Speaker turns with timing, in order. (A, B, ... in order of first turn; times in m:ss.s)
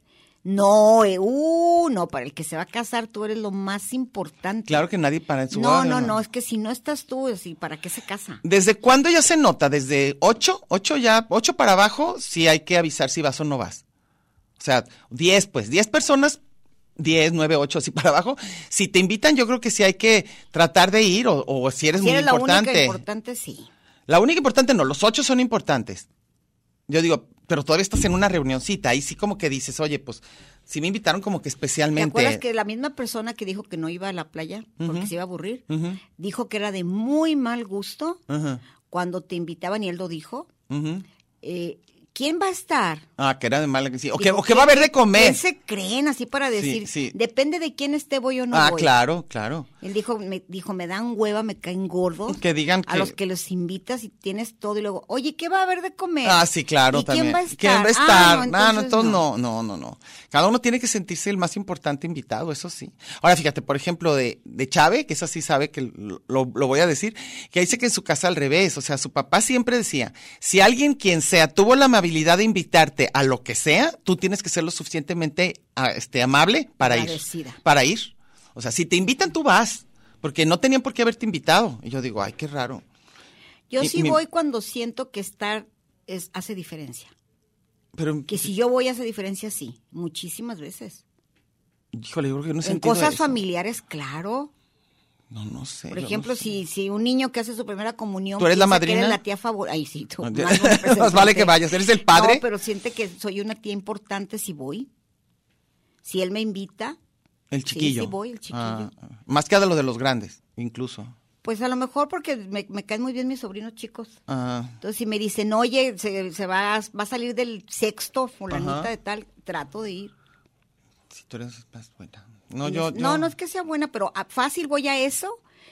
0:00.4-0:04.8 A
0:04.7-0:06.2 B
0:05.5-0:08.4 A
0:08.4-0:13.8 B
0:14.6-0:16.4 B
0:17.0-0:23.0 B
0:22.0-0:23.7 A
0:24.1-0:26.1 B
0:26.9-0:32.4 B
0:32.0-0:38.2 A
0:34.8-0:35.1 B
0:35.7-0:36.0 B
0:38.3-0:38.6 B
0:38.9-0:40.5 A
0:40.7-0:41.0 B
0:41.4-0:43.1 A
0:43.2-0:45.4 B
0:44.2-0:48.9 A
0:46.6-0:47.2 B
0:48.5-0:49.7 B
0:49.8-0:59.2 A
0:52.3-0:53.2 B
0:56.2-1:22.8 B
1:16.8-1:17.6 A
1:23.7-1:27.1 A
1:23.8-1:24.2 B
1:28.0-1:28.5 B
1:28.3-1:31.0 A
1:31.9-1:33.4 B
1:32.6-1:34.5 A
1:35.3-1:36.5 B
1:35.9-1:41.6 A
1:38.4-1:39.2 B
1:40.2-1:42.4 B
1:42.1-1:44.9 A
1:46.0-1:47.0 A
1:47.5-1:51.1 B
1:47.7-1:48.9 A
1:51.4-1:54.2 A
1:54.3-1:54.8 B
1:54.8-2:00.1 A
1:58.5-1:58.9 B
2:01.1-2:03.3 B
2:02.6-2:05.4 A